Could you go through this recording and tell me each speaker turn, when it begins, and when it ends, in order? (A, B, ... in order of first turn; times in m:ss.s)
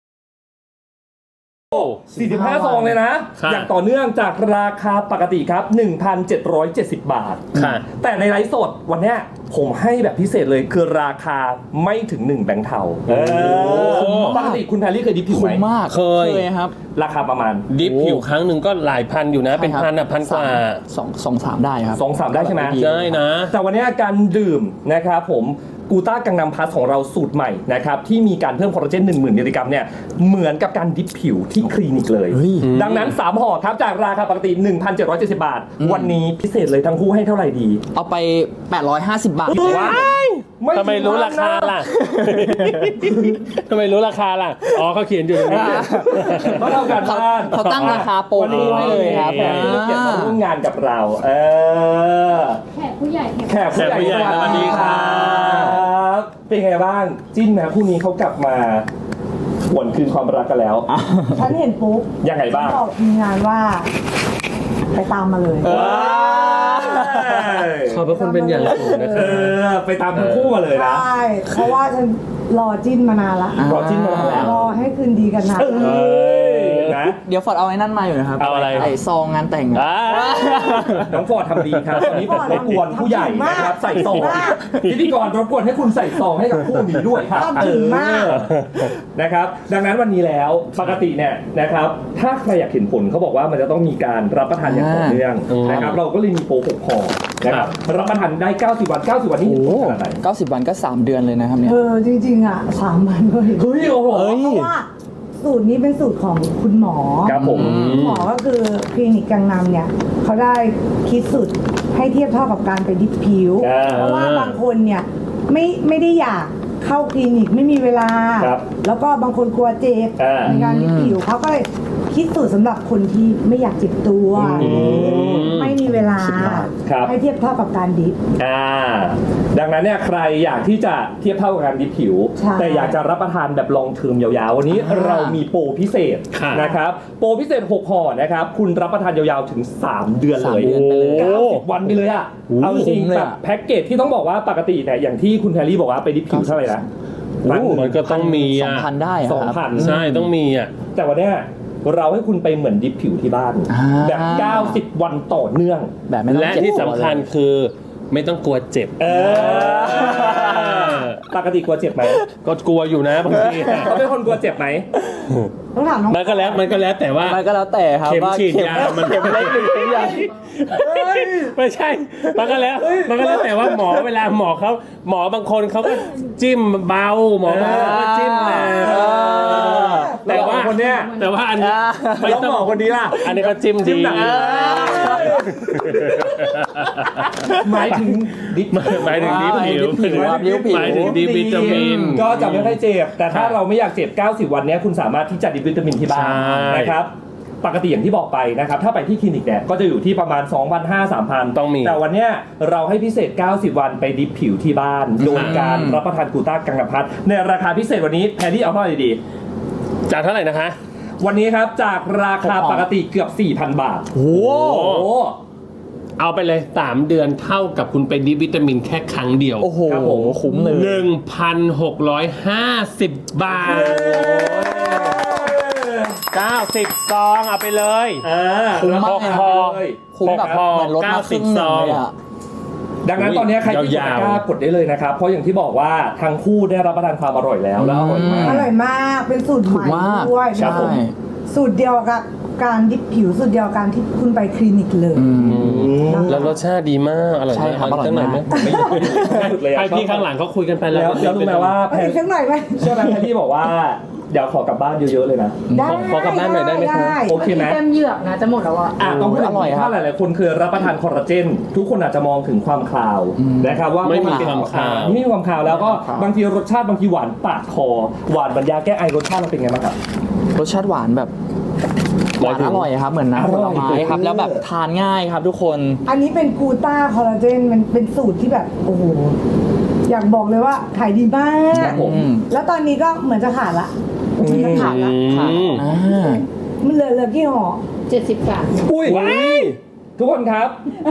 0:01.7-0:02.0 A
0:01.7-0:15.7 B
0:02.1-0:03.0 C
0:03.4-0:03.7 A
0:07.5-0:07.8 A
0:13.0-0:14.4 A
0:13.8-0:14.6 C
0:15.3-0:16.7 C
0:15.9-0:16.5 A
0:16.9-0:17.7 B
0:17.7-0:20.8 A
0:17.8-0:18.2 C
0:19.5-0:23.2 C
0:21.9-0:22.8 B
0:22.7-0:23.5 A
0:23.4-0:37.8 B
0:32.3-0:32.7 C
0:32.6-0:33.2 A
0:35.8-0:36.2 C
0:37.9-0:40.1 C
0:39.5-0:41.9 B
0:39.5-0:47.0 A
0:41.9-0:42.9 C
0:43.0-0:43.4 B
0:45.3-0:50.4 C
0:45.5-0:52.6 B
0:47.5-0:49.9 A
0:52.8-0:54.0 D
0:53.4-0:58.8 B
0:53.7-0:55.8 A
0:53.8-0:55.9 C
0:59.6-1:00.9 B
1:00.9-1:01.4 C
1:01.3-1:03.9 E
1:02.2-1:02.8 B
1:04.9-1:05.8 E
1:05.6-1:07.7 C
1:05.6-1:08.1 B
1:07.8-1:09.6 A
1:08.1-1:09.4 E
1:09.0-1:11.1 B
1:10.1-1:10.6 A
1:10.7-1:16.1 E
1:13.6-1:14.5 C
1:13.6-1:14.6 B
1:15.5-1:17.2 B
1:15.8-1:17.1 A
1:17.2-1:21.1 C
1:18.4-1:18.9 B
1:18.4-1:18.9 A
1:19.7-1:21.1 A
1:21.0-1:40.2 B
1:21.8-1:24.8 E
1:24.0-1:25.0 A
1:27.3-1:28.4 E
1:27.6-1:28.9 A
1:34.6-1:35.9 C
1:35.5-1:36.0 A
1:37.4-1:37.7 A
1:39.4-1:41.8 C
1:41.6-2:08.2 E
1:43.5-1:44.4 B
1:44.1-1:44.7 C
1:47.2-1:47.9 B
1:47.4-1:48.3 A
1:47.4-1:48.2 C
1:53.6-1:54.2 B
1:53.8-1:54.6 A
1:58.4-1:58.7 B
2:00.2-2:00.6 B
2:00.4-2:01.2 C
2:04.3-2:05.6 B
2:04.6-2:05.8 A
2:04.6-2:05.2 C
2:06.2-2:06.7 C
2:06.8-2:07.1 B
2:08.4-2:26.8 B
2:12.4-2:13.0 E
2:14.7-2:15.4 C
2:16.3-2:16.7 A
2:20.3-2:21.6 C
2:20.6-2:21.6 A
2:22.5-2:23.4 C
2:22.6-2:22.9 A
2:26.3-2:26.9 C
2:27.4-2:28.0 B
2:27.4-2:30.3 C
2:27.7-2:28.9 A
2:29.2-2:30.0 B
2:29.8-2:30.7 A
2:30.9-2:35.9 B
2:33.7-2:34.8 C
2:36.1-2:37.3 C
2:36.3-2:41.2 A
2:39.0-2:42.2 B
2:39.1-2:41.0 C
2:42.3-2:44.0 A
2:43.3-2:43.9 C
2:43.7-2:44.9 B
2:45.7-2:46.7 E
2:46.1-2:47.4 A
2:47.2-2:50.3 C
2:48.0-3:07.3 A
2:50.7-2:51.6 B
2:52.4-2:53.6 B
2:57.4-3:01.3 B
2:57.5-3:00.6 C
3:01.6-3:03.3 C
3:02.2-3:06.3 B
3:04.0-3:05.4 C
3:07.4-3:08.1 C
3:07.5-3:29.2 B
3:08.7-3:13.6 A
3:09.0-3:12.4 C
3:16.1-3:17.0 A
3:21.5-3:22.0 A
3:25.2-3:26.0 C
3:25.3-3:25.7 A
3:30.1-3:30.8 A
3:31.2-3:35.4 B
3:32.4-3:32.9 C
3:34.1-3:34.9 C
3:34.3-3:35.1 A
3:36.2-3:39.7 A
3:39.6-3:41.1 C
3:39.8-3:40.5 B
3:40.6-3:45.3 A
3:43.6-3:46.2 B
3:43.7-3:45.5 C
3:46.3-3:48.3 A
3:48.2-3:50.7 B
3:48.7-3:52.1 C
3:49.0-3:52.0 A
3:53.0-3:58.7 B
3:53.2-3:54.5 A
3:57.8-3:58.7 C
3:58.4-4:05.3 E
3:59.7-4:01.1 C
4:00.5-4:01.0 B
4:05.1-4:05.9 C
4:05.4-4:11.8 A
4:05.5-4:06.4 B
4:06.1-4:06.6 E
4:07.5-4:09.5 C
4:08.5-4:10.3 B
4:08.5-4:09.3 E
4:10.9-4:12.2 B
4:11.8-4:13.0 E
4:12.7-4:15.7 B
4:15.7-4:16.2 C
4:15.7-4:17.4 E
4:15.8-4:17.3 A
4:17.2-4:17.8 B
4:17.4-4:19.0 D
4:19.0-4:30.0 B
4:19.0-4:20.0 C
4:23.4-4:24.7 C
4:24.0-4:25.2 A
4:25.6-4:26.3 C
4:30.5-4:31.3 C
4:32.4-4:36.0 C
4:32.4-4:32.9 A
4:33.3-4:34.6 B
4:36.0-4:39.4 E
4:40.0-4:45.2 E
4:41.7-4:42.3 B
4:41.8-4:42.5 C
4:44.4-4:45.0 B
4:44.5-4:45.8 A
4:45.2-4:46.4 C
4:45.8-4:46.3 E
4:46.8-4:47.8 E
4:48.1-4:48.8 D
4:48.7-4:50.8 B
4:49.0-4:49.8 C